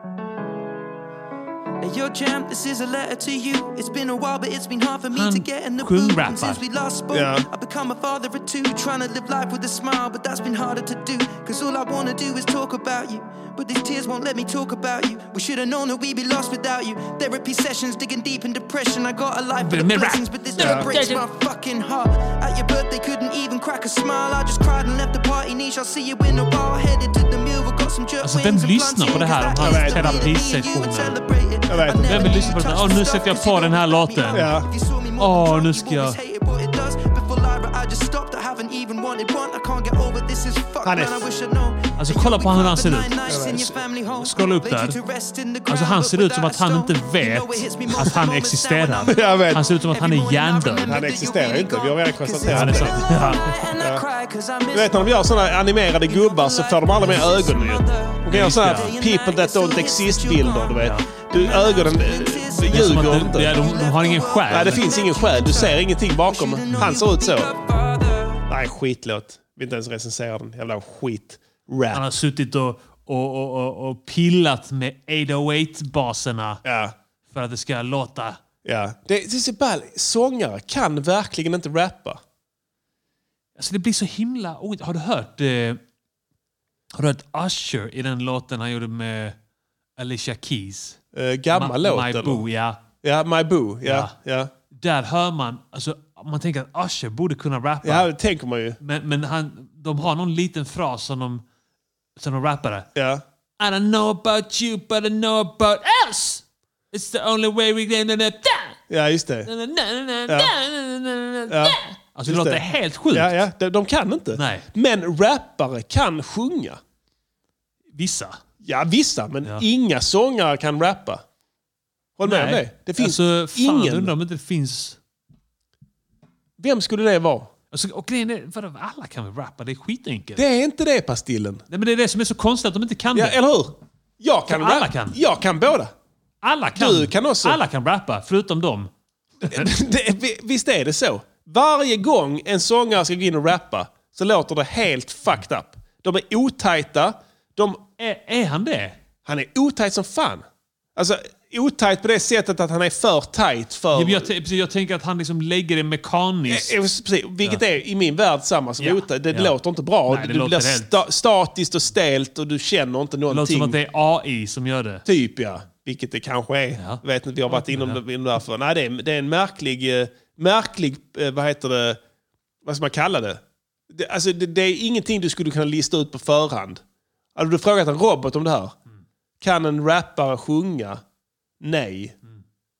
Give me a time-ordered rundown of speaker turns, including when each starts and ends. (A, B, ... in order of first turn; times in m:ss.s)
0:01.8-1:08.4 A
0:05.1-0:06.6 B
0:07.1-0:07.4 C
0:19.6-0:21.2 B
0:20.6-0:20.9 C
0:28.2-0:31.2 B
0:29.6-0:30.3 C
0:31.7-0:32.3 C
0:31.8-0:34.5 B
0:34.3-0:34.7 C
0:35.2-0:36.2 B
0:40.8-0:41.2 C
0:42.0-0:45.0 B
0:43.3-0:43.7 C
0:45.7-0:51.0 B
0:49.1-0:49.7 C
0:50.8-0:53.0 C
0:52.5-0:53.5 B
0:53.8-0:54.0 C
0:54.7-1:03.5 C
0:58.3-0:59.0 B
1:00.8-1:01.0 B
1:02.7-1:04.9 B
1:04.5-1:07.5 C
1:08.5-1:12.0 C
1:11.9-1:16.6 B
1:16.6-1:16.9 C
1:17.3-1:18.4 B
1:18.6-1:22.2 C
1:23.6-1:25.8 B
1:26.9-1:29.4 B
1:30.0-1:31.0 B
1:31.1-1:32.4 C
1:31.5-1:32.8 B
1:33.0-1:34.5 C
1:33.8-1:34.1 B
1:34.7-1:38.1 B
1:37.8-1:38.8 C
1:38.8-1:41.4 B
1:42.2-1:42.9 B
1:42.9-1:43.2 C
1:43.6-1:48.8 B
1:48.9-1:49.5 C
1:49.4-1:53.3 B
1:51.5-1:56.8 C
1:54.3-1:54.6 B
1:58.0-1:58.4 B
1:58.6-2:01.2 C
2:02.2-2:04.1 C
2:02.2-2:05.0 B
2:06.6-2:07.5 C
2:07.7-2:10.4 B
2:10.4-2:11.6 C
2:11.7-2:13.4 B
2:13.1-2:15.9 C
2:14.5-2:15.2 B
2:16.4-2:18.9 B
2:16.8-2:17.6 C
2:19.4-2:27.8 C
2:28.0-2:29.0 B
2:29.2-2:30.4 C
2:30.9-2:34.3 C
2:33.9-2:36.7 B
2:36.5-2:43.8 C
2:38.8-2:39.5 B
2:40.1-2:40.9 B
2:43.3-2:45.0 B
2:45.0-2:52.0 C
2:46.8-2:48.0 B
2:52.6-2:56.8 C
2:57.3-2:58.8 C
2:59.4-3:01.0 C
3:01.6-3:02.2 C